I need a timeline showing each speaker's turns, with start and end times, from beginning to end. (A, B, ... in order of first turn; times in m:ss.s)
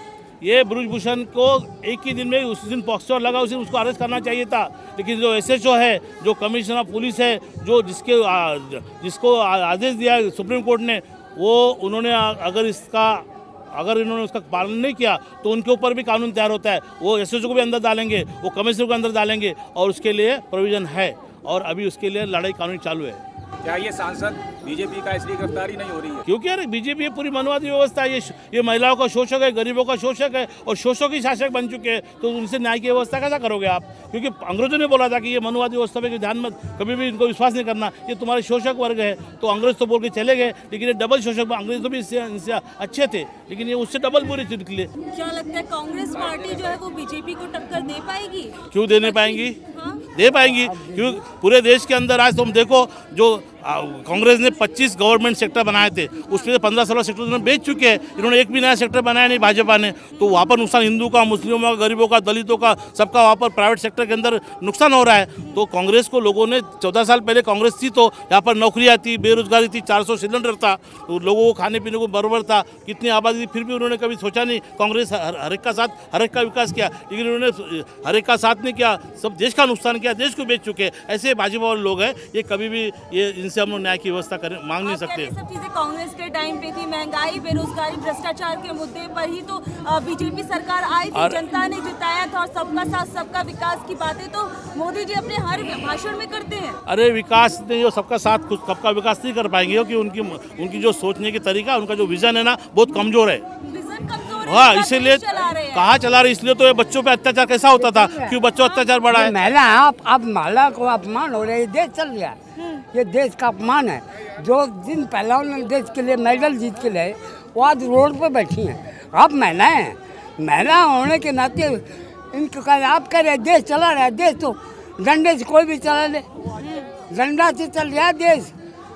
0:00.4-0:23.2 A
0:23.6-0:26.2 B
0:26.3-0:44.9 A
0:45.1-0:50.0 C
0:48.7-0:49.6 A
0:50.2-1:25.3 A
0:50.4-0:51.2 D
1:24.8-1:36.8 C
1:31.1-1:31.4 A
1:36.9-1:43.4 A
1:43.6-1:45.9 C
1:44.4-1:49.4 A
1:47.8-1:48.4 D
1:48.6-1:49.0 C
1:49.1-1:52.4 D
1:52.9-2:06.2 D
2:07.1-2:08.5 D